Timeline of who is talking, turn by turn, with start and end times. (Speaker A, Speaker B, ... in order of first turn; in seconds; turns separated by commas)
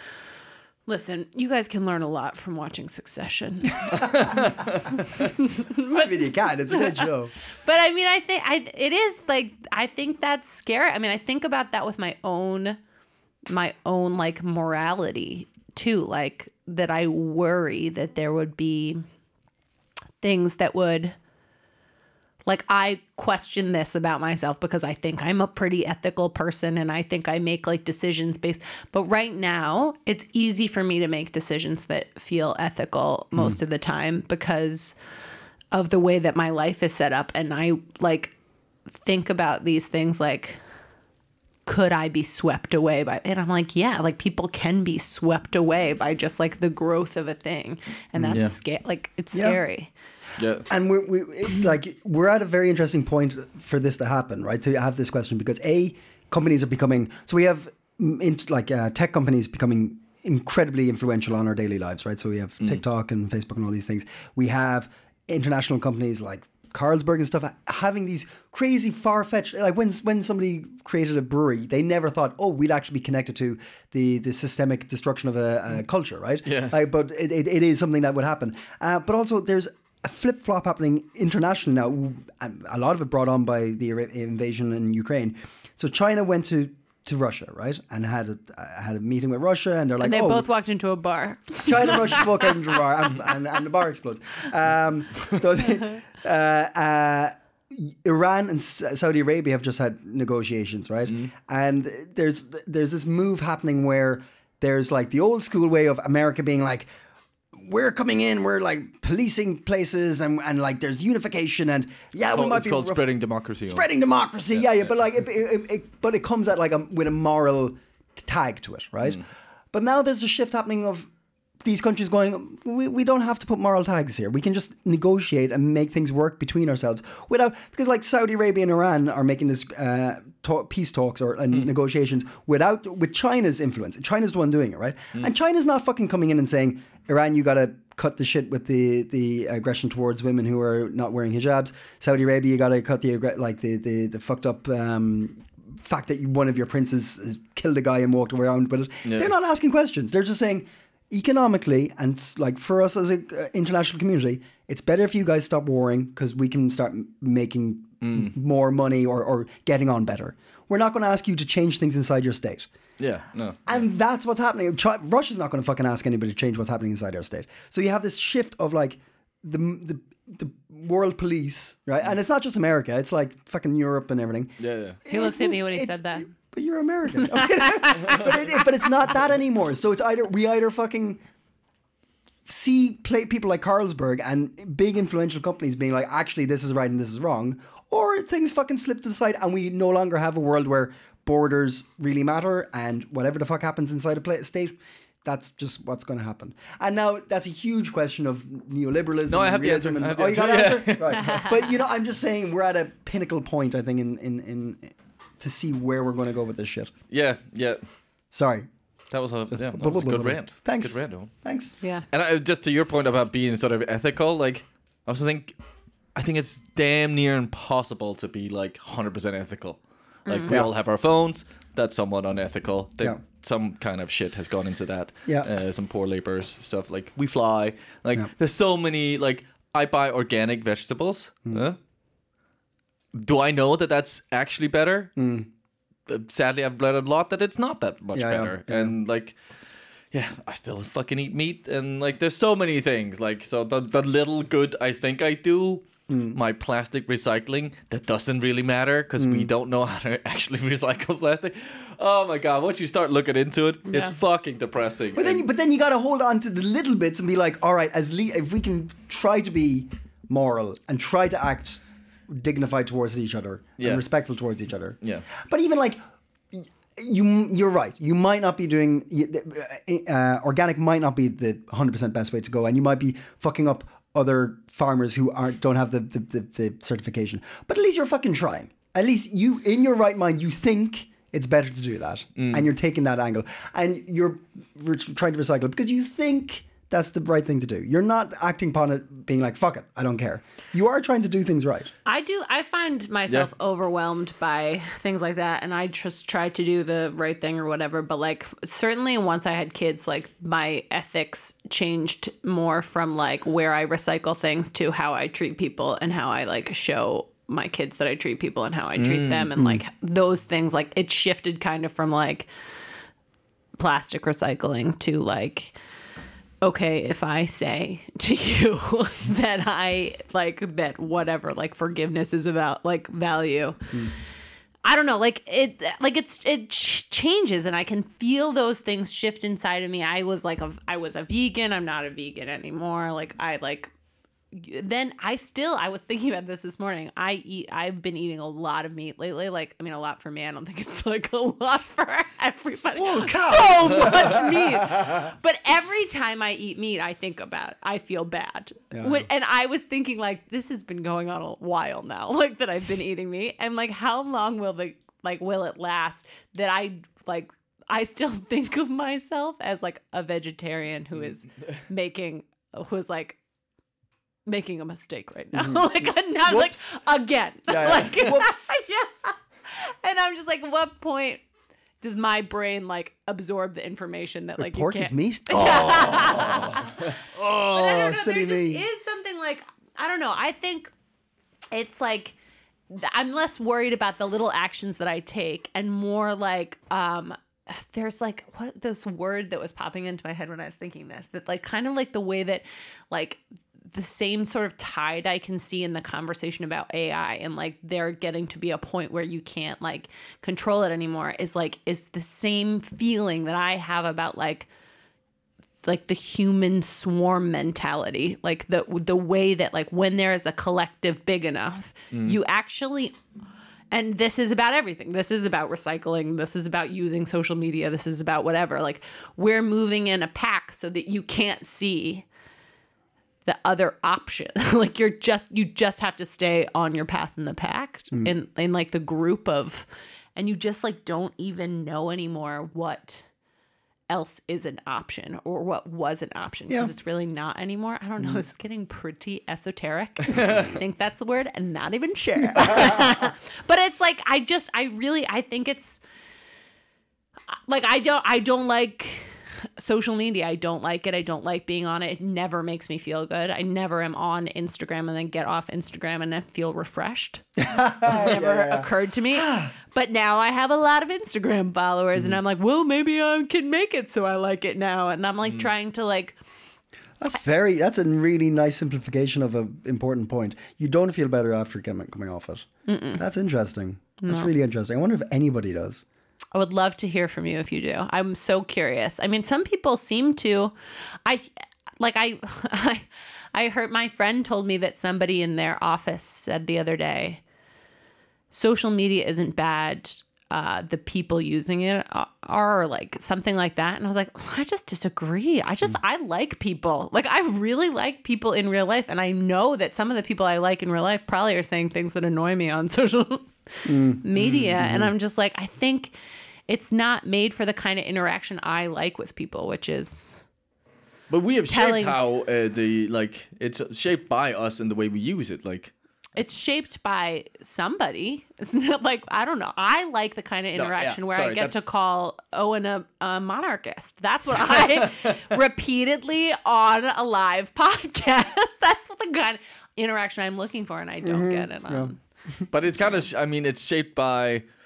Speaker A: 0.9-4.3, Speaker B: 3.9-4.3, Speaker C: 3.9-4.9, Speaker A: 5.0-6.1, Speaker B: 5.8-7.3, Speaker A: 6.7-7.1, Speaker A: 7.6-12.8, Speaker A: 13.5-19.1, Speaker A: 20.2-21.2, Speaker A: 22.5-35.0, Speaker A: 35.7-38.4, Speaker A: 39.0-40.6, Speaker A: 41.7-49.9, Speaker B: 48.2-48.4, Speaker C: 48.3-48.5, Speaker B: 49.3-49.6, Speaker C: 50.4-50.7, Speaker B: 50.7-90.5, Speaker C: 76.5-76.8, Speaker A: 90.0-92.8, Speaker B: 91.7-106.9, Speaker B: 107.5-113.0, Speaker C: 112.3-113.9, Speaker B: 113.7-121.1, Speaker B: 121.6-162.7, Speaker C: 149.1-149.3, Speaker C: 158.0-158.3, Speaker C: 163.0-163.8, Speaker B: 163.7-181.2, Speaker C: 174.6-175.0, Speaker A: 175.1-176.3, Speaker A: 177.2-178.2, Speaker B: 182.5-206.9, Speaker C: 199.3-201.6, Speaker A: 201.2-201.4, Speaker C: 207.1-207.8, Speaker B: 208.3-208.7, Speaker C: 209.1-211.5, Speaker B: 209.5-211.8, Speaker C: 212.1-215.5, Speaker C: 216.2-231.8, Speaker A: 220.3-220.5, Speaker B: 220.5-220.7, Speaker C: 233.1-235.1, Speaker B: 235.2-235.5, Speaker C: 236.1-239.5, Speaker B: 238.1-238.9, Speaker C: 240.1-255.4, Speaker B: 246.1-246.4, Speaker B: 249.2-249.5, Speaker A: 253.9-254.1, Speaker B: 255.2-266.0, Speaker B: 266.5-291.9, Speaker C: 282.4-282.7, Speaker A: 292.1-312.5, Speaker C: 309.0-309.5, Speaker A: 313.8-315.8, Speaker A: 316.6-323.9, Speaker A: 324.9-333.9, Speaker A: 334.5-363.4, Speaker B: 342.9-345.3, Speaker B: 348.9-349.3, Speaker A: 364.5-371.4, Speaker B: 365.5-367.0, Speaker B: 367.7-368.9, Speaker A: 372.0-380.9, Speaker B: 374.6-378.8, Speaker C: 375.9-377.0, Speaker A: 381.7-382.4, Speaker A: 382.9-404.7, Speaker A: 405.8-413.2, Speaker C: 412.1-412.4, Speaker A: 413.9-422.3, Speaker A: 423.4-433.3, Speaker A: 434.1-446.0, Speaker B: 442.5-443.1, Speaker A: 447.5-457.4, Speaker B: 457.6-459.7, Speaker A: 458.0-466.4, Speaker B: 467.2-476.0, Speaker A: 472.9-473.2, Speaker A: 474.2-474.5, Speaker A: 476.5-481.5, Speaker A: 482.0-487.4, Speaker A: 488.5-506.1, Speaker B: 503.9-504.2, Speaker C: 504.4-504.8, Speaker B: 504.8-505.1, Speaker A: 506.7-510.4, Speaker C: 511.3-515.9, Speaker A: 511.7-512.2, Speaker A: 516.4-532.2, Speaker C: 520.8-521.9, Speaker C: 524.8-525.3, Speaker B: 531.2-532.7, Speaker C: 532.7-534.6